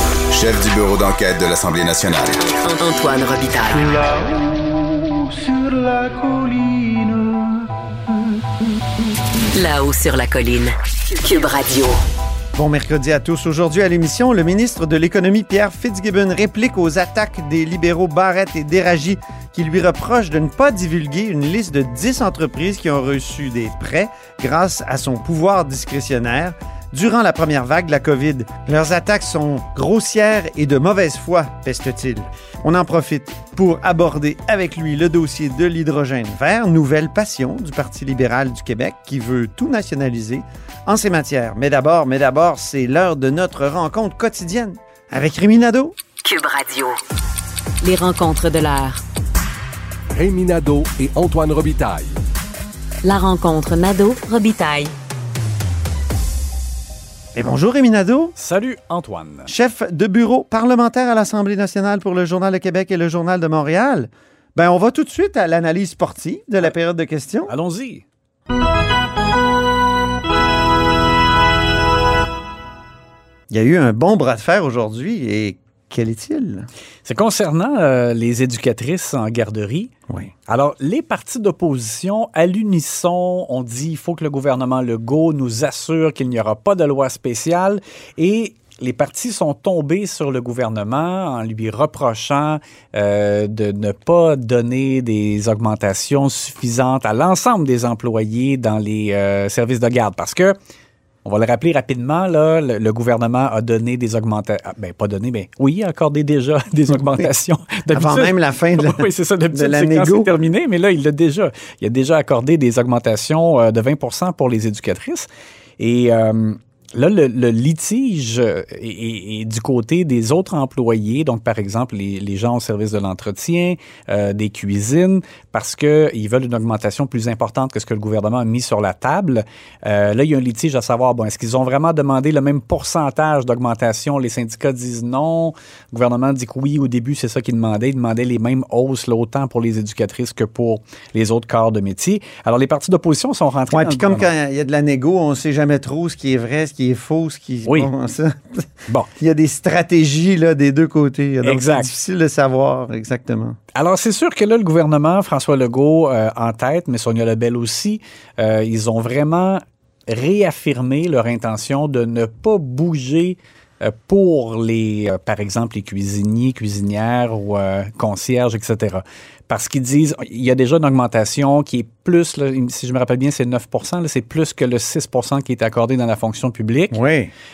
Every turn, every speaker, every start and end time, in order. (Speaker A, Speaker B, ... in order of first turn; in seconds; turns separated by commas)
Speaker A: 0.3-2.4, Speaker B: 2.4-4.2, Speaker B: 9.6-12.0, Speaker C: 12.6-46.0, Speaker B: 46.2-47.0, Speaker B: 47.8-49.0, Speaker D: 50.1-52.1, Speaker B: 53.0-54.9, Speaker C: 57.4-58.3, Speaker E: 58.4-59.5, Speaker C: 59.5-67.5, Speaker E: 67.5-68.0, Speaker C: 73.5-76.7, Speaker E: 77.0-79.9, Speaker E: 80.5-100.5, Speaker E: 101.2-115.3, Speaker C: 107.9-110.3, Speaker E: 115.8-144.3, Speaker C: 143.7-153.6, Speaker E: 151.4-151.9, Speaker E: 153.8-177.0, Speaker C: 176.9-177.3